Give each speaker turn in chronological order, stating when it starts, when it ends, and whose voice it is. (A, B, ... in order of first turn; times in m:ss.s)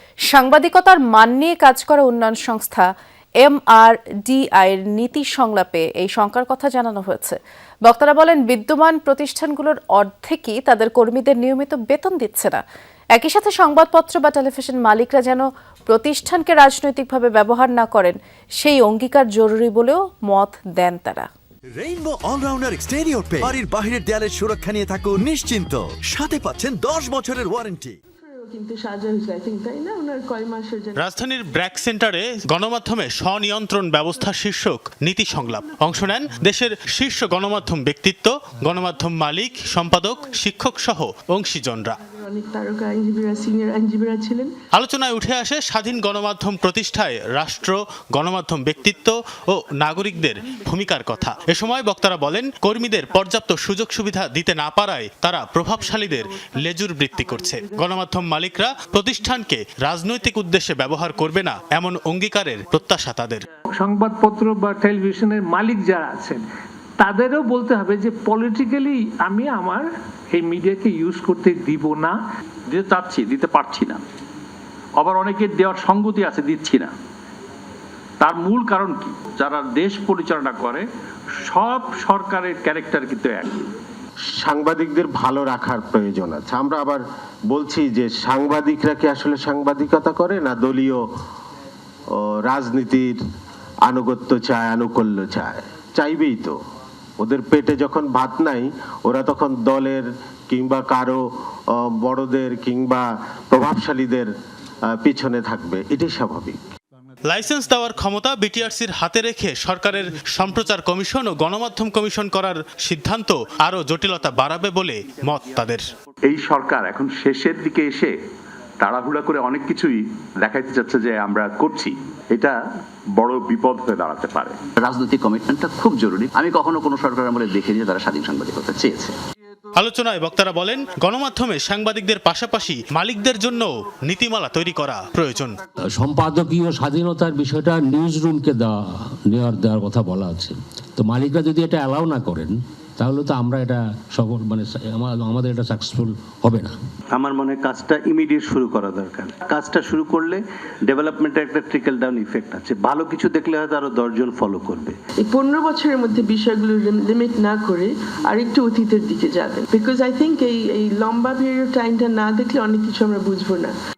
0:00.3-0:02.9 A
0:03.4-0:12.6 A
0:13.1-0:21.3 A
0:21.8-0:28.0 B
0:28.2-0:31.1 C
0:31.0-0:42.0 D
0:42.1-0:44.5 C
0:44.7-1:03.5 D
1:03.8-1:06.4 E
1:07.0-1:12.2 E
1:12.7-1:14.0 F
1:15.0-1:16.9 F
1:18.2-1:20.8 F
1:21.5-1:23.6 F
1:24.4-1:31.0 G
1:32.2-1:33.2 G
1:33.9-1:36.6 G
1:37.2-1:44.3 G
1:45.0-1:46.6 G
1:47.3-1:55.8 D
1:56.3-1:58.1 H
1:58.8-2:02.6 H
2:03.2-2:04.6 H
2:04.8-2:09.1 I
2:09.8-2:15.6 D
2:15.9-2:26.7 J
2:27.1-2:35.0 K
2:35.2-2:43.8 C